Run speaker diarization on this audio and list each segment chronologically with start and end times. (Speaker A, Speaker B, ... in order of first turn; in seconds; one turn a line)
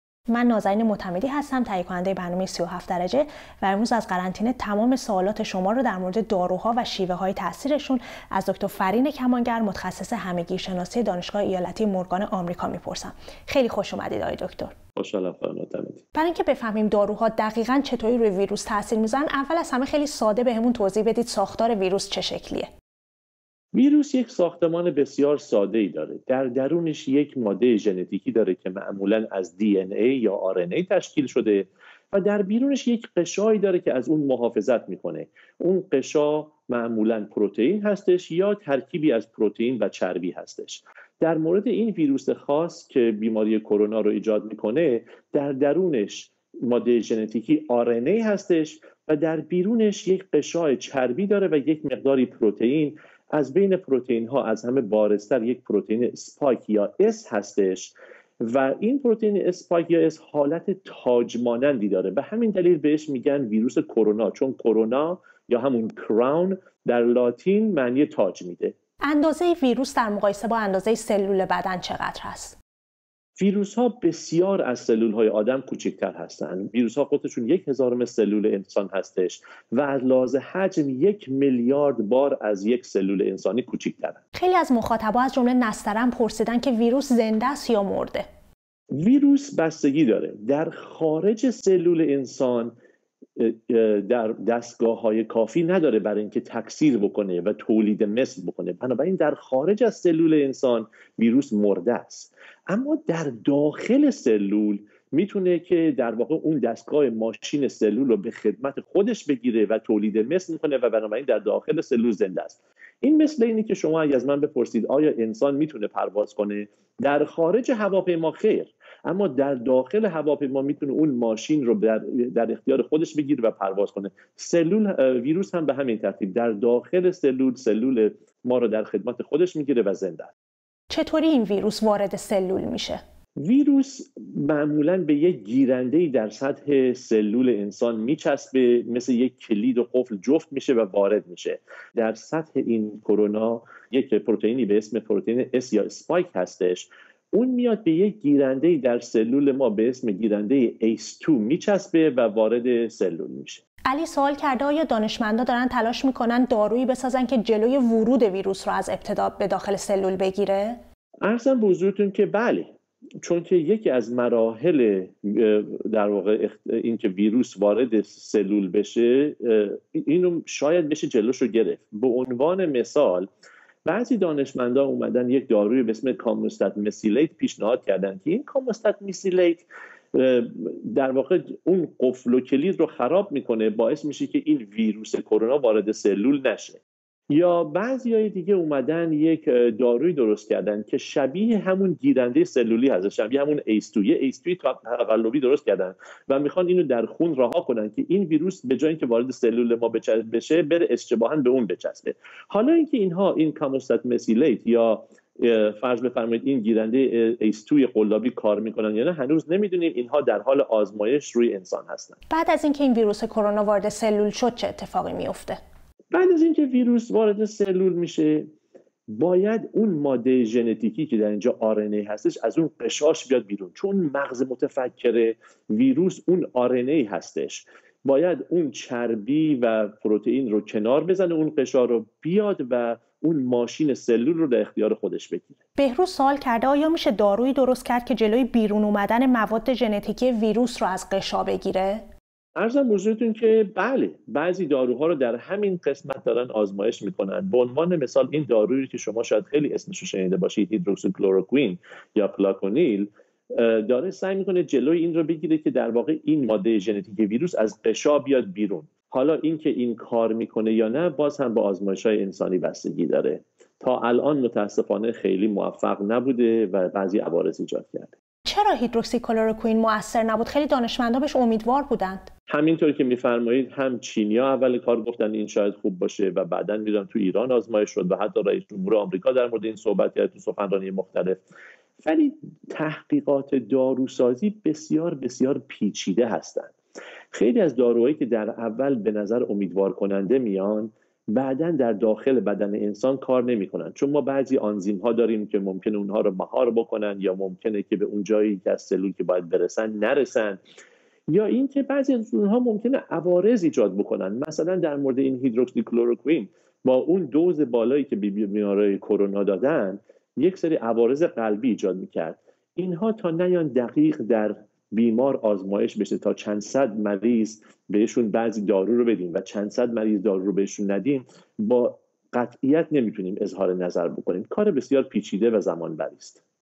Speaker A: 0.3-14.7
Speaker B: 14.9-16.0
Speaker A: 16.1-22.7
Speaker B: 23.7-68.7
Speaker A: 69.0-72.6
Speaker B: 73.3-84.2
Speaker A: 84.3-88.2
Speaker B: 88.9-92.7
Speaker B: 93.4-130.3
Speaker A: 130.9-133.0
Speaker B: 133.4-153.6
Speaker A: 153.9-160.8
Speaker B: 161.2-162.7
Speaker B: 163.2-173.3
Speaker B: 173.8-186.8
Speaker B: 187.3-212.2
Speaker A: 212.3-215.6
Speaker B: 216.1-218.5
Speaker B: 219.1-235.6
Speaker A: 235.8-242.0
Speaker B: 242.6-268.1
Speaker A: 268.4-272.3
Speaker B: 272.5-281.4
Speaker B: 282.0-286.7
Speaker B: 287.3-300.6
Speaker B: 301.3-326.4